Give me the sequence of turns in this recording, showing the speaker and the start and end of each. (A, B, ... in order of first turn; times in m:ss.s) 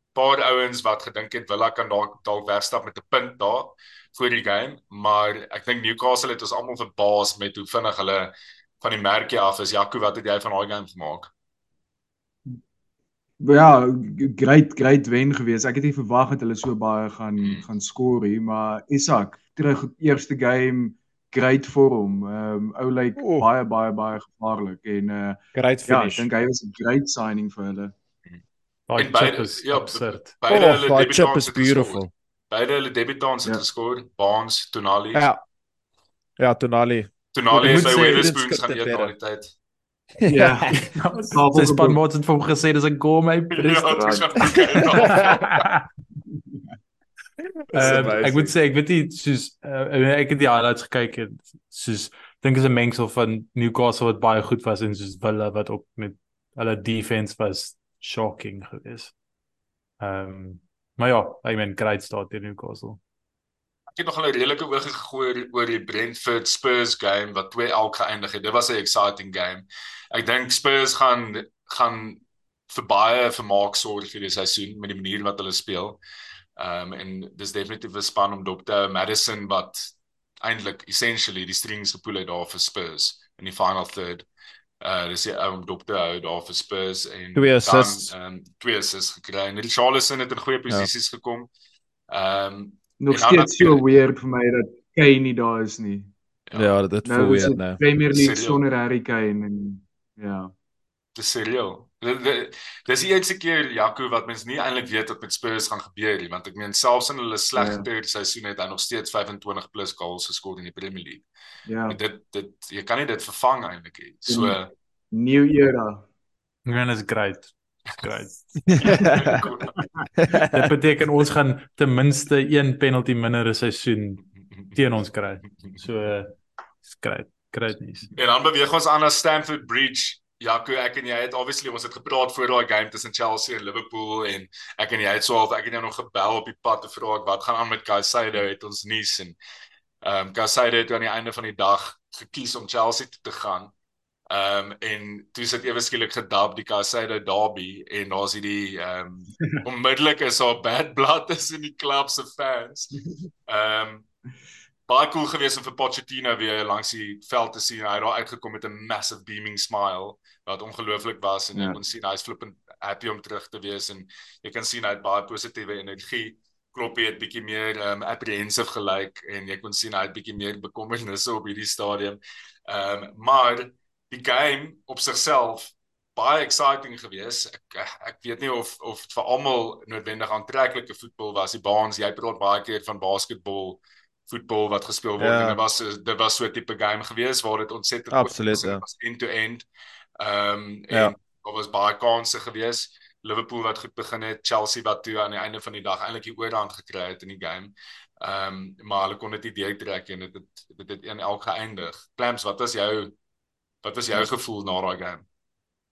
0:00.2-0:11.3 A
0:13.4-0:27.9 B
0:17.4-0:17.6 A
0:23.2-0:23.5 C
0:25.6-0:26.3 C
0:28.9-0:30.3 D
0:29.0-0:35.2 A
0:30.5-0:32.1 C
0:35.1-0:35.4 C
0:36.4-0:39.1 C
0:37.3-0:39.5 A
0:40.2-0:40.8 C
0:40.3-0:42.0 B
0:40.8-0:44.2 D
0:43.5-0:45.6 A
0:44.0-0:44.2 B
0:45.0-0:45.8 D
0:47.7-0:48.5 C
0:47.7-0:59.1 D
1:00.0-1:03.0 D
1:04.0-1:16.0 A
1:16.6-1:24.3 A
1:24.8-1:31.5 A
1:27.4-1:28.1 C
1:32.1-1:33.8 A
1:33.0-1:36.1 B
1:36.5-1:37.8 C
1:37.0-1:40.5 B
1:38.1-1:38.6 A
1:41.2-1:51.2 A
1:47.6-1:47.9 B
1:51.7-1:52.0 B
1:51.9-1:54.7 A
1:54.3-1:54.6 B
1:55.1-1:56.0 B
1:56.7-1:58.6 D
1:58.7-1:59.4 C
1:58.8-1:59.8 A
1:59.8-2:00.0 B
2:00.2-2:00.7 C
2:00.4-2:06.3 D
2:06.9-2:08.1 D
2:08.2-2:19.4 A
2:20.0-2:23.7 A
2:24.3-2:32.9 A
2:33.5-2:34.1 A
2:34.9-3:09.7 A
2:41.5-2:41.8 B
3:05.2-3:05.6 C
3:08.1-3:08.8 C
3:10.2-3:23.1 A
3:23.8-3:25.2 A